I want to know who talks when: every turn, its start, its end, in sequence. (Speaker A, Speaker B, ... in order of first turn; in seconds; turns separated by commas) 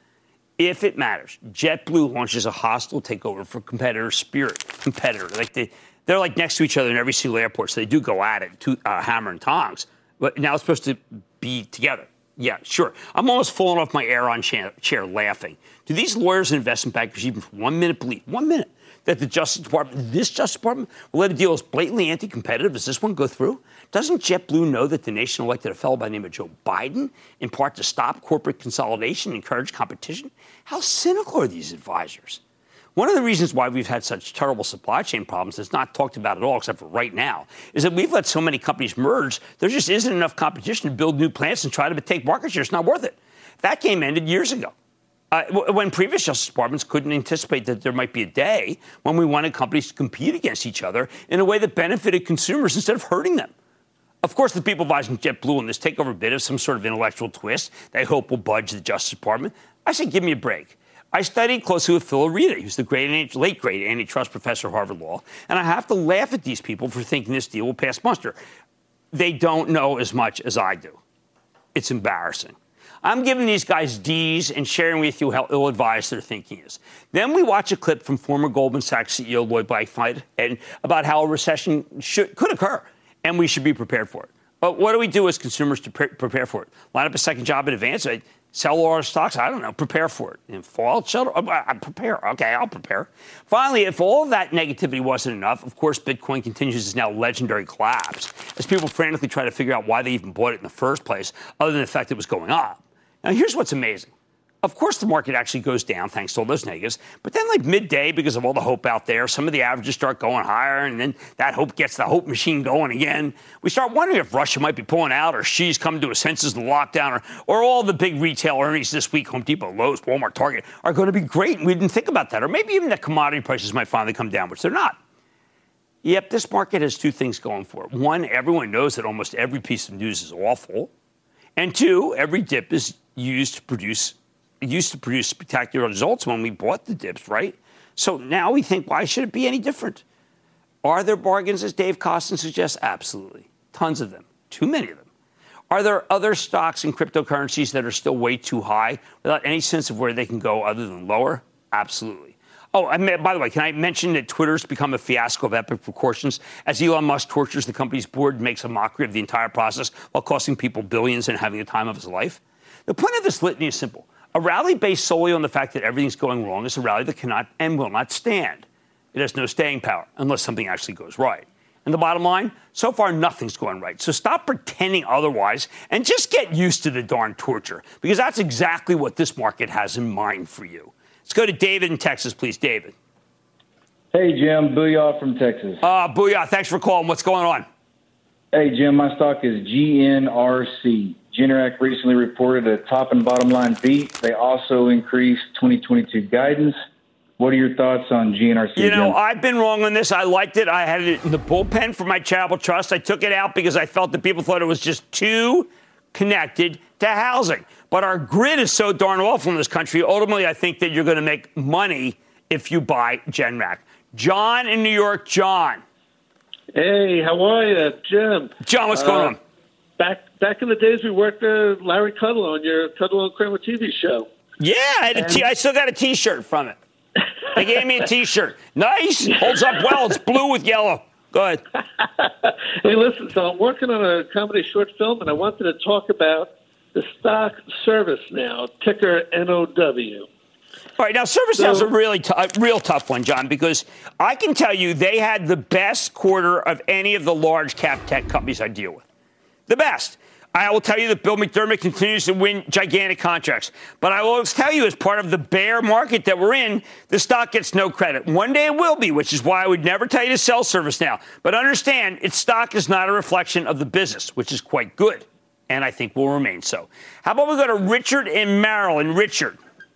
Speaker A: 0.6-32.4, Speaker A: 33.0-44.7, Speaker A: 45.3-53.5, Speaker A: 54.2-68.3, Speaker A: 69.1-71.0, Speaker A: 71.8-104.1, Speaker A: 104.6-125.0, Speaker A: 126.0-130.9, Speaker A: 131.6-140.0, Speaker A: 140.8-145.1, Speaker A: 145.7-182.9, Speaker B: 184.1-185.8, Speaker A: 185.8-187.7, Speaker B: 188.5-196.8, Speaker B: 197.4-199.1, Speaker A: 198.8-215.8, Speaker C: 216.8-219.4, Speaker A: 218.6-219.4, Speaker C: 220.0-224.3, Speaker A: 224.6-226.8, Speaker A: 227.5-231.6, Speaker C: 232.2-240.3, Speaker A: 241.0-249.0, Speaker C: 241.6-241.9, Speaker A: 249.7-269.6